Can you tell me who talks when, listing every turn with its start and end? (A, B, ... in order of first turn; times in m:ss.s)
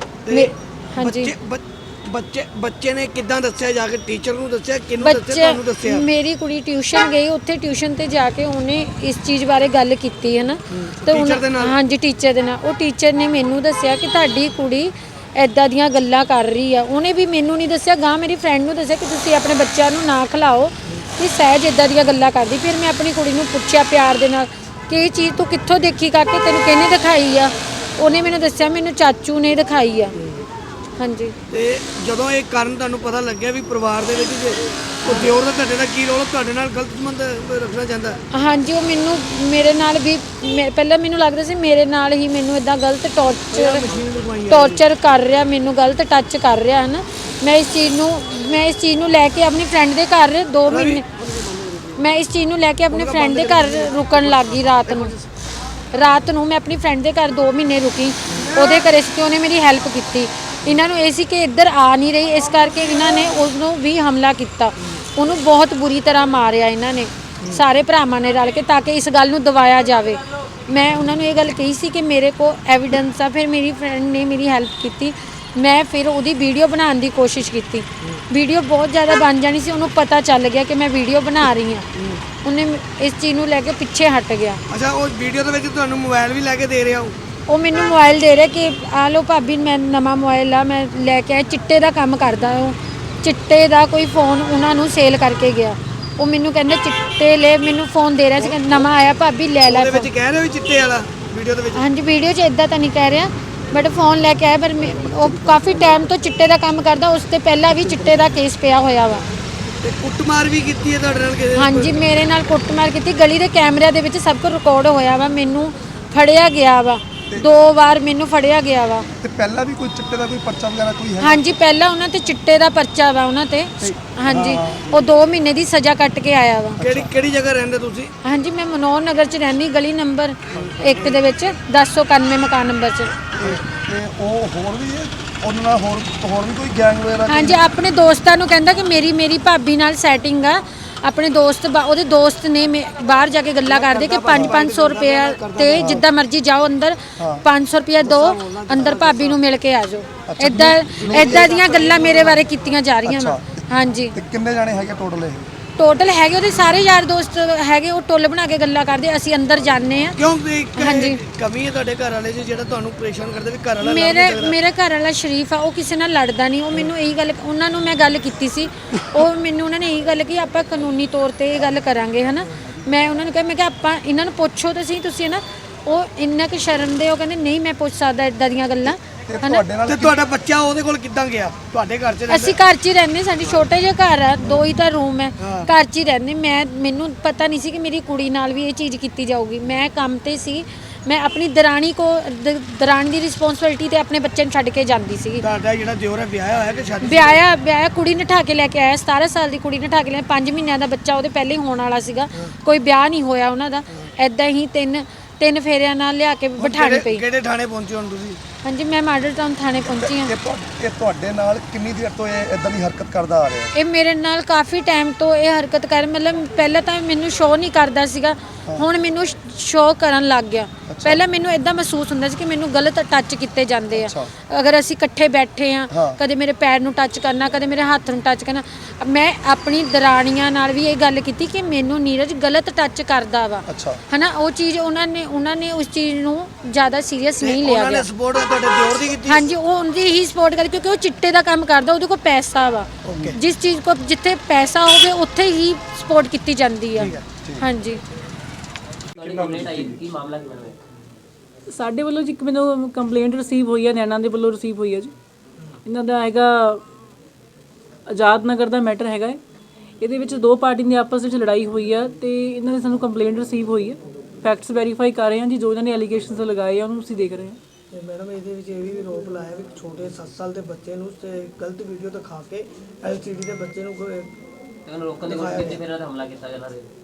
0:00.2-0:06.1 A
0:00.3-0:01.3 B
0:05.0-0:30.2 B
0:10.7-0:11.7 A
0:30.2-0:30.5 A
0:31.0-0:31.4 B
0:31.5-0:38.2 A
0:35.0-0:35.3 B
0:38.3-0:43.8 B
0:43.5-0:44.8 A
0:44.5-0:51.0 B
0:50.7-0:51.9 A
0:52.0-0:55.1 B
0:52.9-0:55.2 A
0:55.9-1:21.9 B
0:58.3-0:58.7 A
1:22.4-1:24.6 B
1:24.7-1:27.2 A
1:27.5-1:40.1 B
1:38.4-1:38.8 A
1:39.6-1:41.8 A
1:41.7-1:49.2 B
1:49.8-1:52.0 A
1:51.5-1:59.1 B
1:59.2-2:01.4 C
2:01.2-2:06.8 B
2:03.8-2:05.0 C
2:06.8-2:07.1 C
2:06.8-2:08.1 A
2:08.2-2:13.2 B
2:10.5-2:11.1 C
2:10.5-2:11.0 A
2:13.3-2:17.6 C
2:13.4-2:13.7 A
2:17.3-2:34.2 B
2:23.6-2:26.0 A
2:24.3-2:24.6 C
2:25.7-2:26.0 C
2:27.2-2:27.4 C
2:28.0-2:29.4 A
2:30.3-2:31.5 C
2:30.9-2:32.4 A
2:33.0-2:35.5 C
2:35.8-2:40.2 B
2:40.2-2:44.6 A
2:40.8-2:41.2 B
2:43.8-2:59.6 B
2:59.3-3:00.2 C
2:59.8-3:02.6 A
3:02.3-3:15.4 B
3:05.4-3:05.7 A
3:15.4-3:17.4 A
3:17.0-3:27.2 B
3:26.6-3:28.4 A
3:28.6-3:30.3 B
3:29.8-3:33.8 C
3:33.7-3:58.1 B
3:40.9-3:41.2 C
3:43.9-3:44.3 C
3:45.9-3:46.2 C
3:53.6-3:54.0 C
3:57.4-3:59.4 A
3:59.3-4:08.0 B
4:03.0-4:03.4 C
4:07.0-4:07.6 C
4:09.1-4:10.8 D
4:09.2-4:10.0 C
4:11.7-4:15.1 E
4:15.8-4:16.8 E
4:18.1-4:19.4 E
4:20.0-4:27.6 E
4:27.9-4:34.3 A
4:34.8-4:36.9 D
4:35.2-4:35.8 A